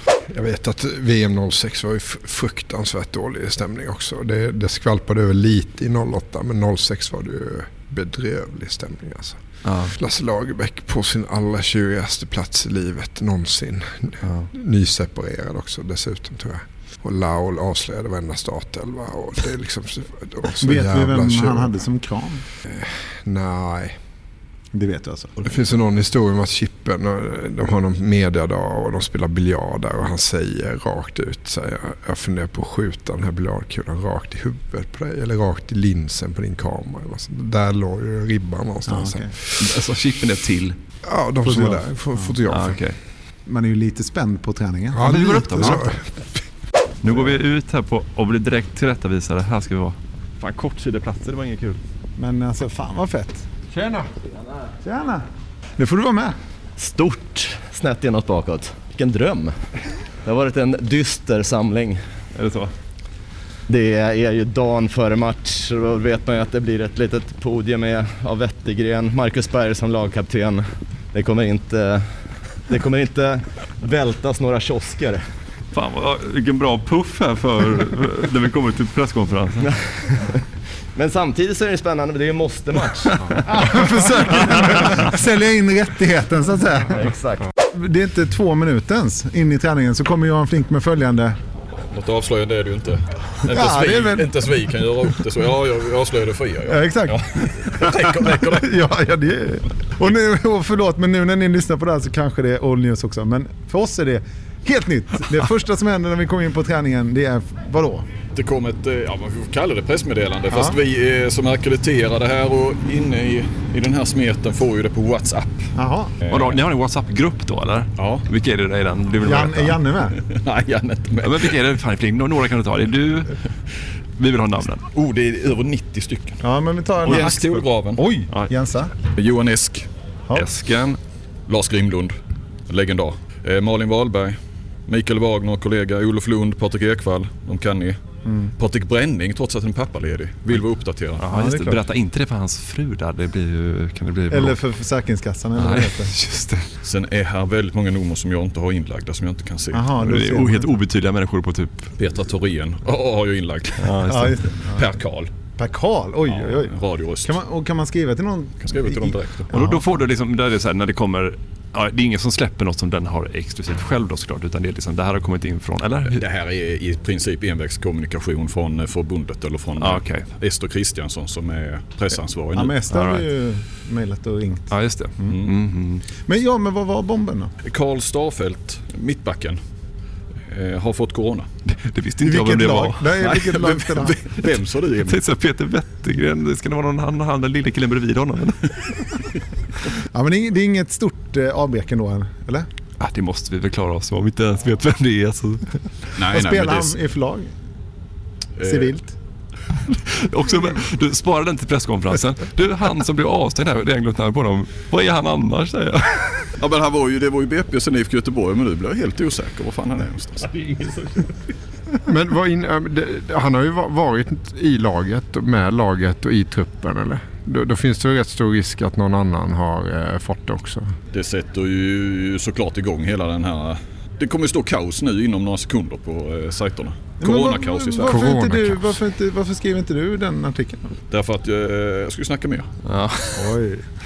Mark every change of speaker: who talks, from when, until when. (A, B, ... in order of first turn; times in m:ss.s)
0:00.2-0:21.8 A
0:09.6-0:09.9 B
0:14.2-0:14.5 B
0:20.6-0:22.4 C
0:22.6-0:24.0 A
0:24.7-0:25.4 C
0:25.4-0:39.7 A
0:38.8-0:39.3 C
0:39.6-0:40.8 B
0:41.0-0:42.8 A
0:41.4-0:42.3 C
0:42.5-0:43.0 B
0:43.4-0:45.8 C
0:44.9-0:46.4 A
0:45.0-0:45.8 B
0:47.0-0:51.8 B
0:52.2-0:53.5 C
0:54.8-0:55.2 C
0:55.8-0:56.4 C
0:56.8-0:59.6 D
1:00.2-1:02.0 D
1:02.3-1:02.7 B
1:03.7-1:15.2 D
1:15.7-1:19.7 B
1:19.6-1:20.4 D
1:20.9-1:23.3 D
1:23.5-1:27.0 C
1:26.9-1:27.4 D
1:27.7-1:31.4 C
1:31.9-1:38.9 E
1:33.5-1:34.3 C
1:36.7-1:37.2 C
1:37.8-1:48.0 C
1:48.3-1:55.7 E
1:50.5-1:50.8 C
1:55.8-1:56.1 C
1:56.2-1:56.6 E
1:56.3-1:59.8 B
1:58.0-1:58.3 E
1:59.2-2:00.1 C
2:00.3-2:01.6 E
2:01.2-2:03.4 B
2:04.2-2:04.8 B
2:04.9-2:06.4 E
2:06.4-2:08.9 C
2:07.0-2:08.0 E
2:07.0-2:07.4 B
2:08.3-2:08.5 B
2:09.1-2:09.9 E
2:10.3-2:11.0 B
2:11.5-2:12.1 E
2:12.7-2:18.0 E
2:18.2-2:18.5 C
2:18.6-2:21.2 E
2:21.2-2:24.6 B
2:21.3-2:21.8 C
2:24.3-2:26.1 C
2:25.6-2:26.7 B
2:26.8-2:30.2 E
2:29.7-2:30.8 C
2:30.0-2:31.9 B
2:32.0-2:34.0 E
2:33.8-2:34.5 B
2:34.1-2:34.8 C
2:34.6-2:35.3 E
2:35.6-2:36.7 C
2:36.2-2:37.4 E
2:37.2-2:39.9 C
2:38.6-2:39.5 E
2:39.5-2:46.2 B
2:46.1-2:52.8 E
2:49.8-2:50.3 B
2:52.5-2:54.7 C
2:52.9-2:53.3 B
2:54.7-2:56.0 B
2:56.2-2:57.5 C
2:57.6-2:59.6 E
3:00.5-3:01.5 E
3:01.7-3:03.2 B
3:02.2-3:04.1 C
3:03.2-3:05.2 E
3:05.0-3:08.8 B
3:10.1-3:12.7 C
3:13.0-3:15.8 B
3:16.2-3:17.0 E
3:16.3-3:17.5 C
3:18.6-3:19.0 E
3:18.6-3:19.1 C
3:20.2-3:26.4 B
3:26.6-3:30.5 E
3:32.1-3:40.9 A
3:41.1-3:48.3 E
3:47.2-3:50.9 C
3:48.0-3:49.0 A
3:51.1-3:52.7 E
3:52.8-3:53.6 B
3:53.4-3:53.8 C